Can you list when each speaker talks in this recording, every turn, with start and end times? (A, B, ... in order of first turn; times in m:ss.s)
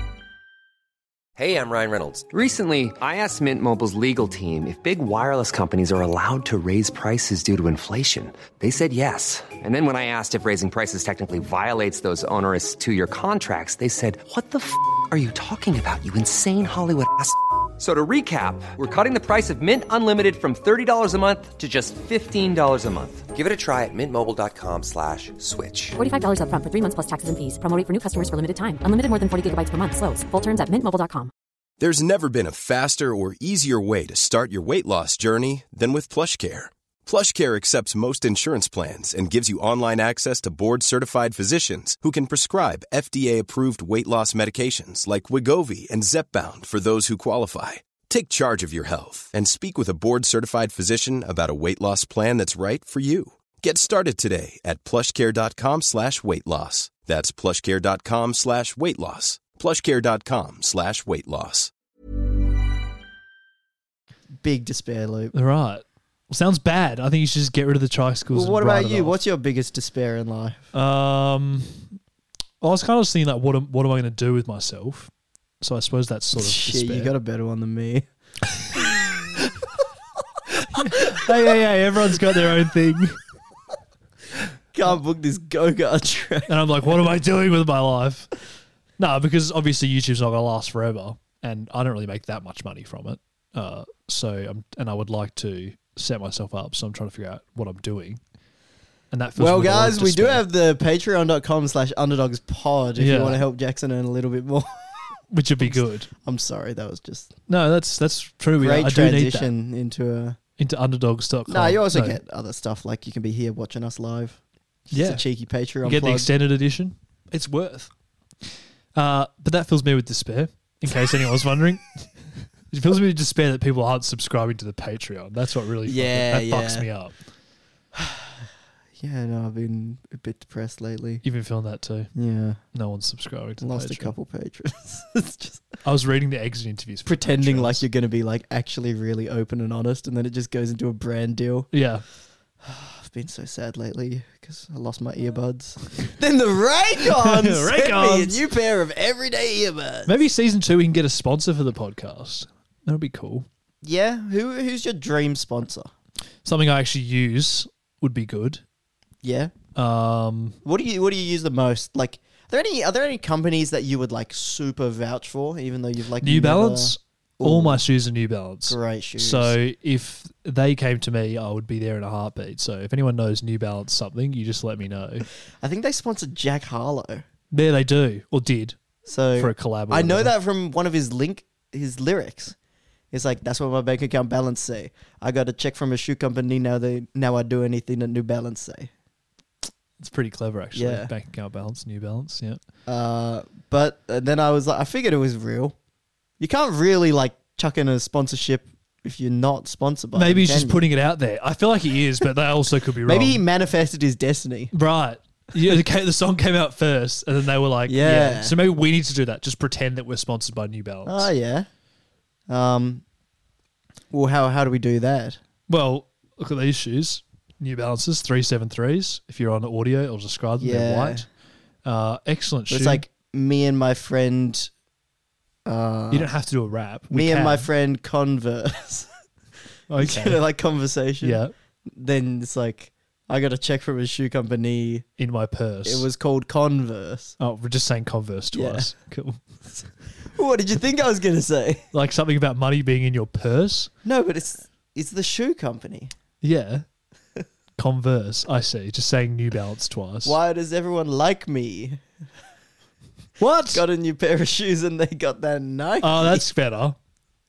0:01.4-0:26.0 A
0:26.0-0:31.3 B
0:31.8-1:01.7 C
1:04.4-1:05.3 D
1:05.3-1:09.2 E
1:08.3-1:10.7 D
1:10.7-1:11.9 E
1:12.6-1:15.1 E
1:15.6-1:17.1 E
1:16.3-1:18.0 D
1:20.5-1:23.2 E
1:20.7-1:21.5 D
1:24.7-1:26.5 D
1:26.5-1:28.3 E
1:29.0-1:38.2 E
1:39.1-1:40.4 E
1:39.4-1:47.3 D
1:43.0-1:43.4 E
1:45.3-1:46.1 E
1:47.5-1:49.5 E
1:48.6-1:50.4 D
1:50.6-1:52.2 E
1:51.5-1:56.3 D
1:54.9-1:55.2 E
1:55.8-1:57.9 E
1:58.9-2:02.1 E
2:02.7-2:07.1 E
2:05.8-2:06.9 D
2:07.9-2:08.5 D
2:09.0-2:11.2 D
2:11.2-2:12.1 E
2:12.1-2:12.6 D
2:12.7-2:14.1 E
2:13.6-2:15.7 D
2:15.8-2:17.8 E
2:17.0-2:21.7 D
2:21.7-2:22.0 E
2:22.6-2:30.2 D
2:27.1-2:28.4 E
2:30.0-2:33.5 E
2:33.8-2:35.9 D
2:36.4-2:38.6 E
2:39.2-2:39.5 D
2:39.7-2:40.6 E
2:40.6-2:47.8 D
2:46.2-2:55.3 E
2:48.7-2:49.6 D
2:55.6-2:57.2 D
2:57.5-2:58.8 E
2:59.0-3:02.5 D
2:59.4-3:00.3 E
3:03.1-3:08.9 D
3:10.0-3:12.6 E
3:10.7-3:11.1 D
3:12.8-3:15.7 D
3:16.4-3:20.9 D
3:20.1-3:23.4 E
3:23.0-3:24.7 D
3:24.7-3:31.3 E
3:27.9-3:28.6 D
3:31.0-3:31.7 D
3:32.5-3:33.0 D
3:34.1-3:35.4 D
3:35.7-3:41.3 E
3:40.6-3:41.3 D
3:41.8-3:43.0 E
3:42.7-3:44.7 D
3:45.6-3:46.3 D
3:46.1-3:47.7 E
3:47.1-3:49.1 D
3:49.9-3:50.4 E
3:50.0-3:55.0 D
3:51.2-3:51.5 E
3:55.2-3:56.1 E
3:55.8-3:57.4 D
3:57.4-3:59.4 E
3:58.5-3:58.9 D
4:00.2-4:01.8 D
4:01.9-4:03.9 E
4:04.0-4:06.1 D
4:06.4-4:06.8 E
4:07.8-4:10.4 E
4:10.2-4:12.0 D
4:13.4-4:13.8 E
4:13.7-4:16.5 D
4:16.0-4:17.0 E